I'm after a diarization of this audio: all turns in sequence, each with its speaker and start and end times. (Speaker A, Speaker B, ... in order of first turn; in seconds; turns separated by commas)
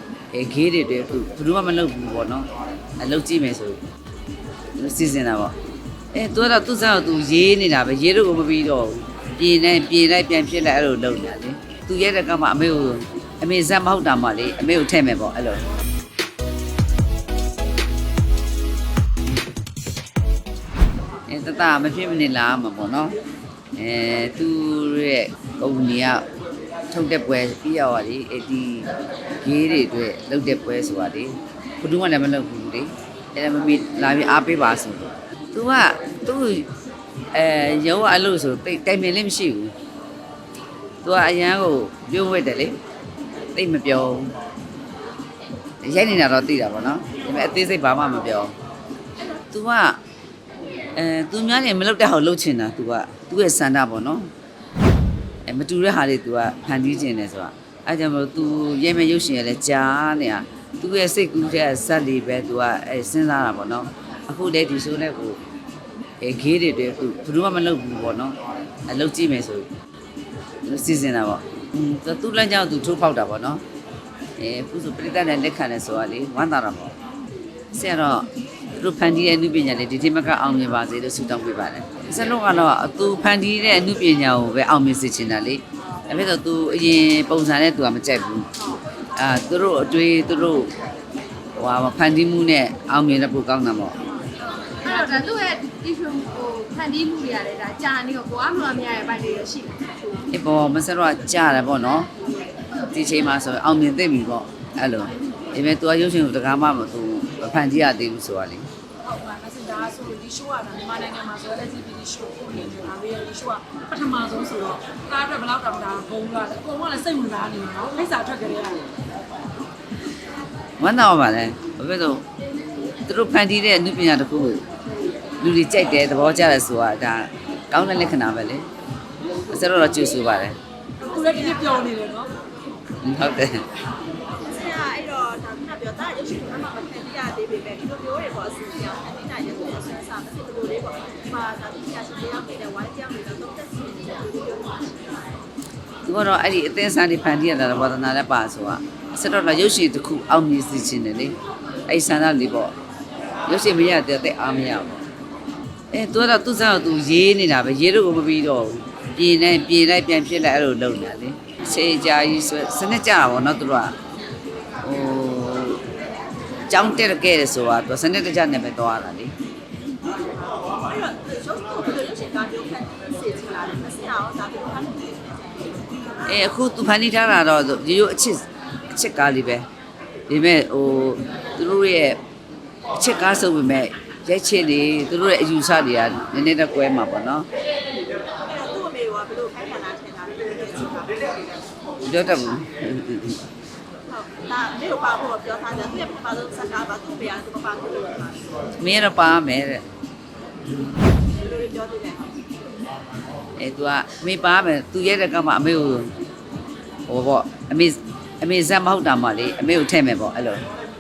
Speaker A: 0.3-2.5, Speaker A: 3.0-3.8, Speaker A: 4.8-5.5, Speaker A: 6.1-15.6, Speaker A: 21.3-23.2, Speaker A: 23.8-26.2, Speaker A: 26.9-28.9, Speaker A: 29.4-36.7, Speaker A: 37.3-39.7, Speaker A: 41.0-42.8, Speaker A: 43.5-44.3, Speaker A: 45.8-48.5, Speaker A: 49.5-50.0, Speaker A: 51.0-54.3, Speaker A: 55.5-65.4, Speaker A: 66.2-68.4, Speaker A: 68.9-69.7, Speaker A: 70.6-73.6, Speaker A: 74.4-76.9, Speaker A: 77.7-88.5, Speaker A: 89.1-90.7, Speaker A: 91.6-94.0, Speaker B: 94.7-100.0, Speaker A: 100.3-102.1, Speaker A: 102.9-108.7, Speaker C: 109.0-119.0, Speaker A: 120.8-122.2, Speaker A: 123.1-124.6, Speaker A: 125.4-128.7, Speaker A: 129.5-130.6, Speaker C: 131.0-132.3, Speaker D: 131.1-131.9, Speaker A: 133.0-133.7, Speaker D: 134.3-145.2, Speaker A: 146.0-151.3, Speaker A: 151.9-152.8, Speaker A: 153.5-155.0, Speaker A: 155.9-163.9, Speaker A: 164.8-165.8, Speaker A: 166.7-169.3, Speaker D: 170.1-176.3, Speaker A: 176.2-179.7, Speaker A: 180.3-182.2, Speaker A: 182.9-187.5, Speaker D: 188.4-191.4, Speaker A: 192.0-193.4, Speaker D: 194.1-198.4, Speaker A: 198.8-199.8, Speaker D: 201.1-202.5, Speaker A: 203.6-206.1, Speaker A: 207.1-210.6